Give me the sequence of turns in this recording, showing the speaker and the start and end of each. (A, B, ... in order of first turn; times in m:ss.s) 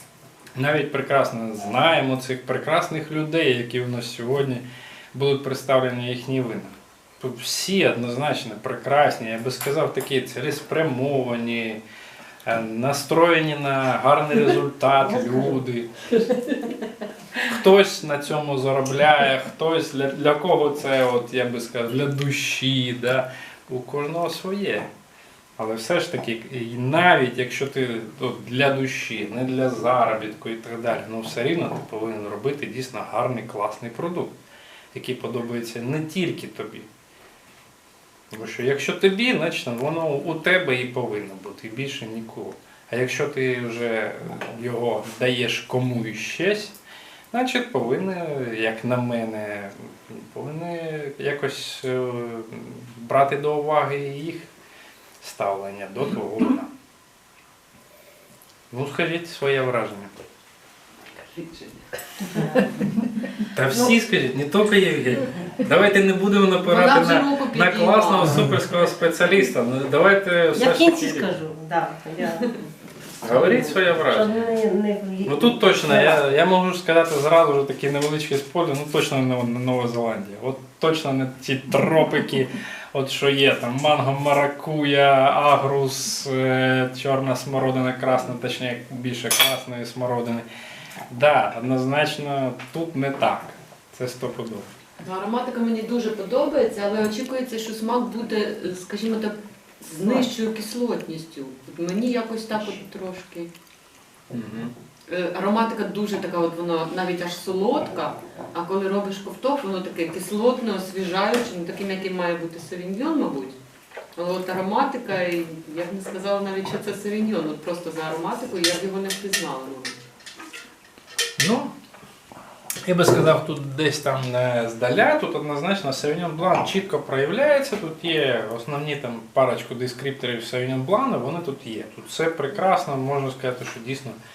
0:00.6-0:11.8 A
0:12.5-0:15.9 A
0:15.1-0:15.6 B
0:17.4-0:24.9 A
0:25.6-0:34.4 A
0:34.9-0:36.9 A
0:38.3-0:46.8 A
0:47.3-0:54.5 A
0:55.2-0:56.7 A
0:58.7-1:00.1 A
1:01.2-1:02.4 C
1:02.4-1:02.6 B
1:03.5-1:11.3 A
1:06.7-1:08.6 C
1:10.5-1:12.5 B
1:13.2-1:14.5 A
1:13.3-1:16.2 B
1:15.3-1:30.5 A
1:31.1-1:34.7 A
1:35.0-1:43.5 C
1:44.3-1:44.7 A
1:45.1-1:53.6 C
1:54.2-2:00.0 C
2:01.4-2:01.7 A
2:02.8-2:14.2 A